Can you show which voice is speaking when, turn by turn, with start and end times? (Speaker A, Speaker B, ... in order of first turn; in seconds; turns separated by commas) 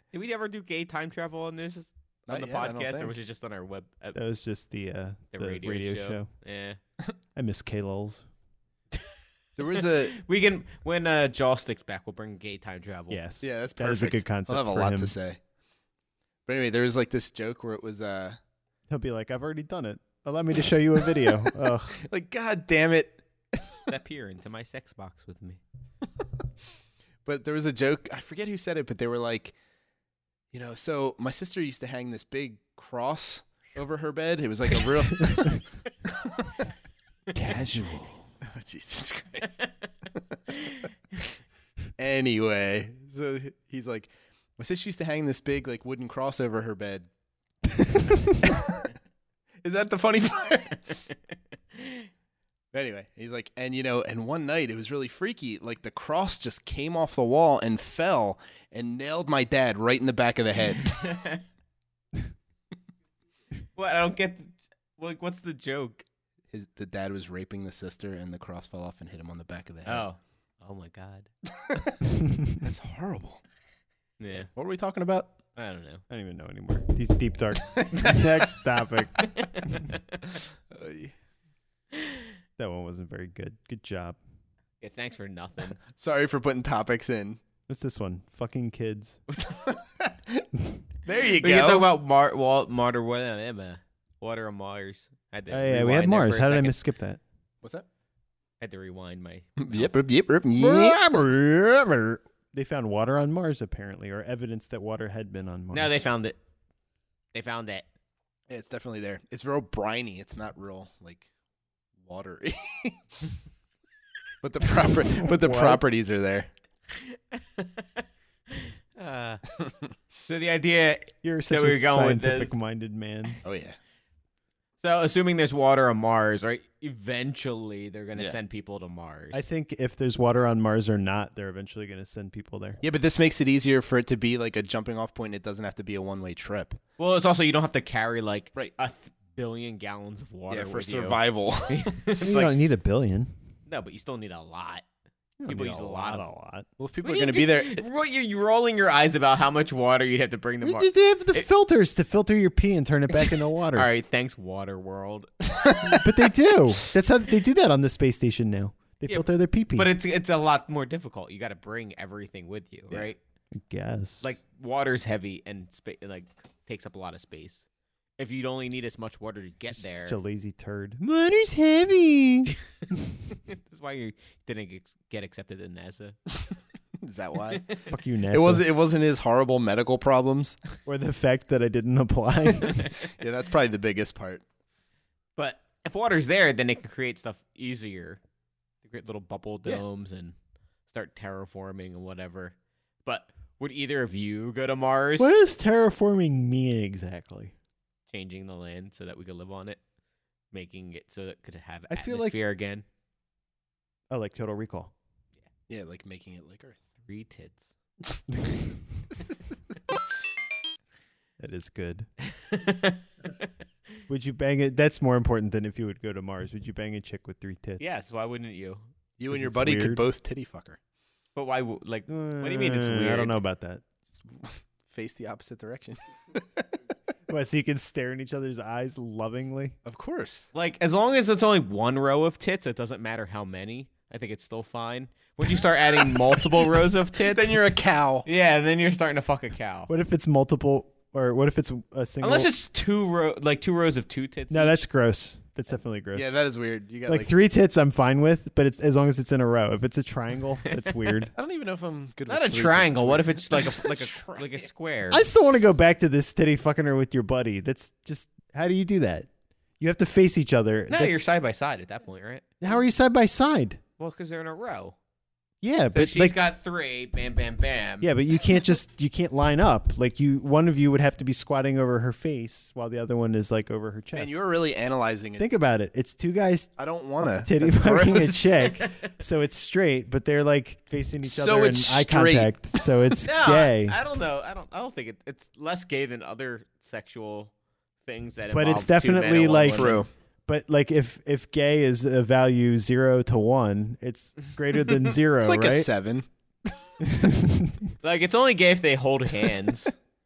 Speaker A: 0.1-4.2, Speaker B: 2.3-3.1, Speaker C: 4.1-6.3, Speaker A: 5.3-6.8, Speaker C: 7.3-8.2, Speaker B: 9.6-10.2, Speaker A: 10.1-13.2, Speaker C: 13.1-15.1, Speaker B: 13.4-15.4, Speaker B: 16.4-18.4, Speaker C: 18.9-22.0, Speaker B: 21.9-23.6, Speaker A: 23.8-25.6, Speaker B: 27.2-29.5, Speaker B: 30.5-35.5, Speaker C: 35.2-35.5, Speaker C: 37.3-38.2, Speaker B: 38.4-39.6, Speaker B: 42.0-47.1, Speaker B: 48.4-48.9, Speaker B: 49.6-50.9, Speaker B: 52.7-61.0, Speaker A: 60.9-61.4, Speaker A: 63.8-66.0, Speaker B: 66.5-70.0, Speaker A: 69.8-71.3, Speaker B: 71.6-72.0, Speaker B: 72.5-73.4, Speaker A: 74.2-74.5, Speaker B: 74.5-75.3, Speaker A: 75.5-76.0, Speaker C: 76.1-79.8, Speaker B: 77.8-78.2, Speaker A: 79.3-79.7, Speaker B: 80.7-81.1, Speaker C: 82.6-84.2, Speaker A: 84.8-85.8, Speaker B: 85.9-87.4, Speaker C: 87.7-89.2, Speaker B: 89.5-90.5, Speaker B: 91.0-91.9, Speaker A: 91.4-96.8, Speaker C: 95.5-97.2, Speaker A: 98.6-99.9, Speaker B: 99.6-101.0, Speaker C: 100.5-105.9, Speaker A: 105.7-106.3, Speaker A: 107.3-107.9, Speaker B: 108.5-111.3, Speaker B: 112.0-113.0, Speaker B: 114.4-116.5, Speaker C: 115.2-115.8, Speaker A: 116.9-119.4, Speaker A: 120.3-122.5, Speaker C: 121.2-123.4, Speaker B: 123.4-123.8, Speaker A: 124.8-129.4, Speaker C: 129.3-132.8, Speaker B: 132.8-136.8, Speaker A: 137.0-142.5, Speaker B: 140.5-141.8, Speaker C: 142.2-143.3, Speaker A: 143.7-144.8, Speaker C: 145.4-146.7, Speaker A: 145.5-146.3, Speaker B: 146.8-147.8, Speaker A: 147.0-151.4, Speaker C: 150.6-153.9, Speaker A: 153.2-155.7, Speaker C: 155.8-159.9, Speaker A: 159.1-163.2, Speaker C: 163.6-164.3, Speaker A: 164.2-167.6, Speaker A: 168.2-170.2, Speaker C: 169.7-173.2, Speaker A: 173.5-176.2, Speaker B: 177.0-177.8, Speaker C: 177.9-178.7, Speaker B: 178.3-180.6, Speaker C: 180.8-182.9, Speaker B: 182.5-184.4, Speaker A: 185.4-188.2, Speaker A: 188.8-190.3, Speaker A: 190.9-195.3, Speaker C: 195.2-197.5, Speaker A: 198.1-199.8, Speaker A: 200.5-202.8, Speaker C: 201.9-202.4, Speaker C: 204.1-204.9, Speaker B: 205.7-206.8, Speaker A: 207.0-207.7, Speaker C: 211.4-212.1, Speaker A: 212.4-213.0, Speaker C: 214.1-217.8, Speaker A: 217.8-218.8, Speaker B: 219.2-220.8, Speaker C: 219.3-220.0, Speaker A: 221.3-223.4, Speaker C: 222.1-223.8, Speaker B: 224.3-226.7, Speaker C: 227.3-229.7, Speaker B: 229.8-230.5, Speaker A: 230.5-237.6, Speaker B: 237.2-238.2, Speaker A: 238.2-239.9, Speaker C: 239.9-242.5, Speaker A: 242.2-244.8, Speaker C: 244.5-246.3, Speaker B: 246.1-247.3, Speaker C: 247.1-251.3, Speaker B: 251.3-254.7, Speaker A: 252.3-255.2, Speaker C: 255.1-261.2, Speaker A: 260.9-262.5, Speaker C: 262.6-263.8, Speaker A: 264.0-264.9, Speaker C: 265.6-266.4, Speaker A: 265.9-268.1, Speaker C: 268.0-274.4, Speaker B: 274.1-275.5, Speaker C: 275.4-284.0, Speaker B: 276.8-278.6, Speaker B: 281.2-282.7, Speaker A: 283.2-287.5, Speaker A: 288.0-290.0, Speaker C: 288.5-289.9, Speaker B: 289.6-290.1, Speaker C: 290.5-295.9, Speaker B: 295.4-296.8, Speaker C: 297.0-297.8, Speaker A: 298.0-299.9